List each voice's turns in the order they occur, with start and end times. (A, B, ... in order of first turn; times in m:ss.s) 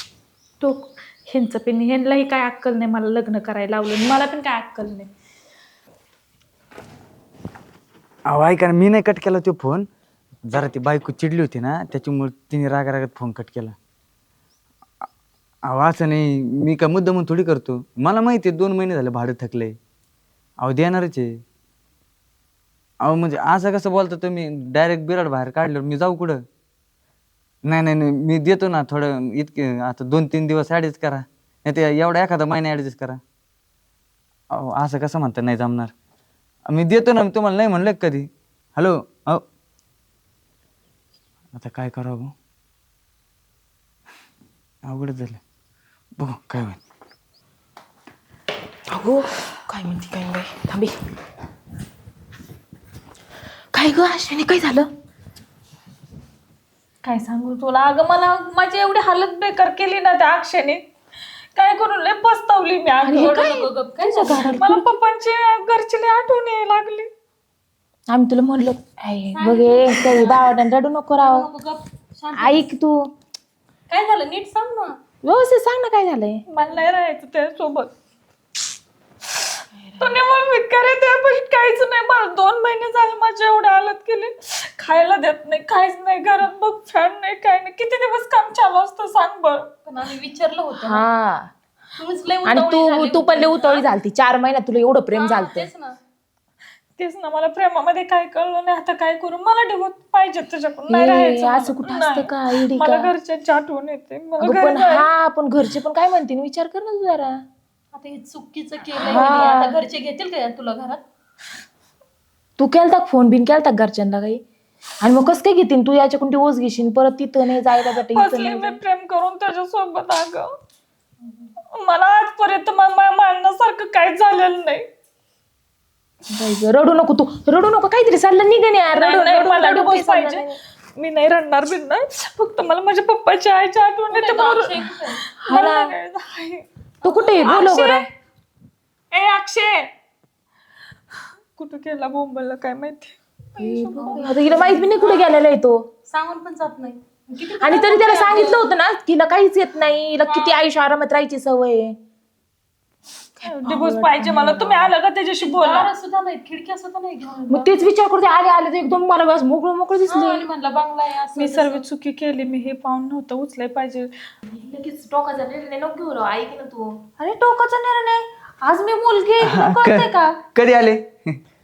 0:00.6-0:05.1 A
0:08.3-0:09.9 B
0:10.5-0:13.8 B
0:15.7-0:19.8 B
0:20.6-0:21.4 B
0:23.0-0:26.4 B
0:27.6-0:33.2 B
0:34.5-0:35.9 B
0:36.7-0:39.4 B
0:41.5-0:42.3 B
0:44.9-0:45.4 B
0:46.2-0:46.8 B
0:48.9-0:50.9 C
0:53.7-0:54.9 C
0:57.0-1:00.8 A
1:01.6-1:03.6 A
1:03.0-1:04.9 C
1:03.2-1:04.5 D
1:04.1-1:07.1 A
1:08.1-1:11.4 C
1:09.4-1:10.6 D
1:11.2-1:12.7 D
1:12.4-1:13.1 C
1:13.9-1:15.0 D
1:15.2-1:16.4 C
1:16.5-1:17.9 A
1:19.8-1:20.2 C
1:20.0-1:29.7 A
1:29.9-1:31.0 D
1:30.8-1:31.5 C
1:32.0-1:33.9 D
1:32.5-1:35.7 C
1:35.1-1:36.0 D
1:37.0-1:45.1 A
1:40.9-1:43.1 C
1:44.4-1:47.4 C
1:47.9-1:51.0 D
1:49.0-1:49.8 C
1:52.6-1:54.4 C
1:55.0-1:58.8 C
1:58.2-2:00.5 A
2:01.7-2:04.9 A
2:06.3-2:10.6 C
2:09.0-2:10.4 A
2:11.0-2:18.1 A
2:14.1-2:15.2 D
2:15.4-2:15.9 C
2:17.0-2:18.0 C
2:19.1-2:19.9 A
2:21.5-2:24.6 A
2:23.6-2:25.9 C
2:23.6-2:25.4 D
2:26.1-2:28.7 D
2:27.6-2:32.0 C
2:30.3-2:30.6 D
2:33.4-2:34.9 C
2:33.4-2:35.9 A
2:35.4-2:37.7 D
2:37.5-2:40.5 C
2:40.1-2:41.8 D
2:41.4-2:44.1 A
2:44.4-2:47.0 C
2:47.2-2:50.4 A
2:49.4-2:51.4 B